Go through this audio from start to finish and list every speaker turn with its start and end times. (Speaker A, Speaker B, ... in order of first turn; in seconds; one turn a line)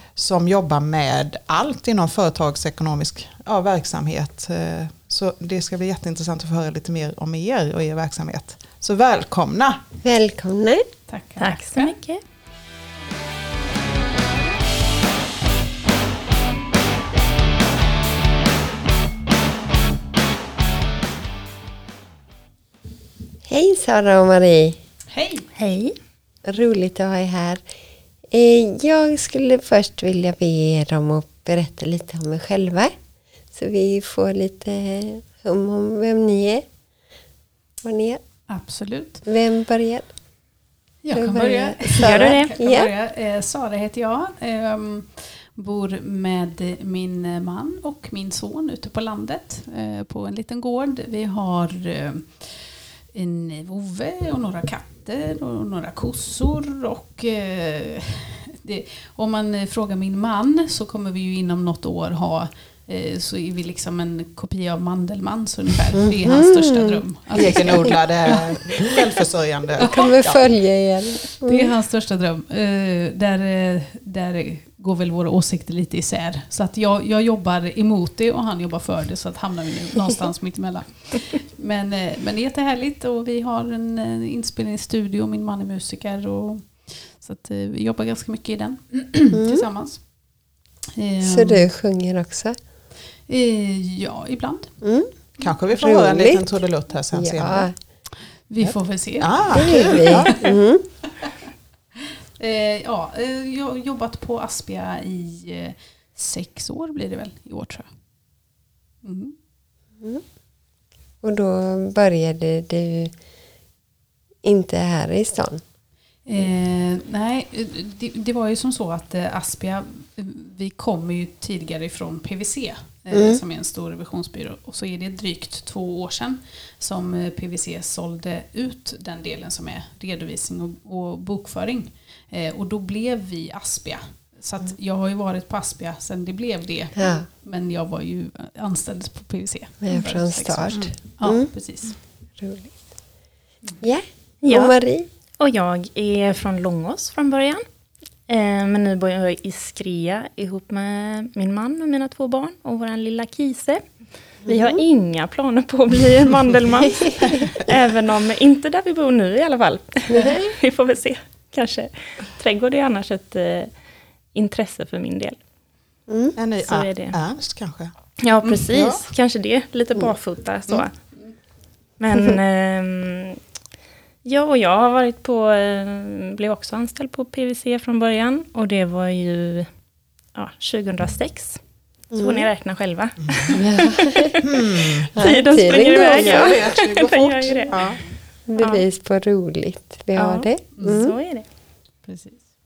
Speaker A: 0.1-9.8
Speaker B: 10.0-10.8
Speaker C: 11.1-12.0
Speaker D: 11.4-12.2
Speaker B: 23.5-24.8
Speaker C: 25.1-25.4
Speaker D: 25.6-25.9
Speaker B: 26.5-27.6
Speaker B: 28.3-32.9
Speaker B: 33.5-36.6
Speaker B: 37.8-38.2
Speaker C: 38.5-39.2
Speaker B: 39.2-40.1
Speaker C: 41.0-68.3
Speaker B: 41.1-42.9
Speaker D: 42.0-42.5
Speaker B: 66.0-67.0
Speaker A: 67.3-70.4
Speaker B: 67.6-67.8
Speaker B: 69.8-71.7
Speaker C: 69.8-70.1
Speaker C: 71.4-90.1
Speaker B: 89.3-89.6
Speaker C: 90.9-91.7
Speaker B: 91.2-92.5
Speaker C: 93.2-94.7
Speaker B: 94.8-96.6
Speaker A: 95.4-97.7
Speaker B: 97.1-97.7
Speaker C: 98.4-100.4
Speaker A: 98.6-100.3
Speaker B: 99.5-100.8
Speaker C: 102.4-107.9
Speaker C: 109.0-109.3
Speaker B: 111.2-113.1
Speaker B: 114.4-115.6
Speaker C: 116.2-141.9
Speaker B: 123.1-123.4
Speaker B: 136.9-137.3
Speaker B: 139.8-141.5
Speaker B: 142.4-142.8
Speaker B: 143.8-145.1
Speaker D: 144.4-144.7
Speaker D: 145.4-147.6
Speaker D: 148.3-153.8
Speaker D: 154.4-163.7
Speaker B: 154.5-154.8
Speaker D: 164.3-165.4
Speaker B: 166.1-166.3
Speaker A: 166.3-167.9
Speaker D: 166.6-167.2
Speaker D: 168.2-170.9
Speaker A: 168.7-169.0
Speaker D: 172.0-173.4
Speaker D: 174.2-179.7
Speaker D: 180.3-183.9
Speaker B: 182.1-182.5
Speaker B: 183.5-184.4
Speaker A: 184.4-188.0
Speaker B: 185.2-186.6
Speaker D: 185.2-187.9
Speaker B: 188.5-191.1
Speaker D: 188.6-188.8
Speaker D: 190.2-191.4
Speaker C: 190.8-191.1
Speaker C: 192.0-192.4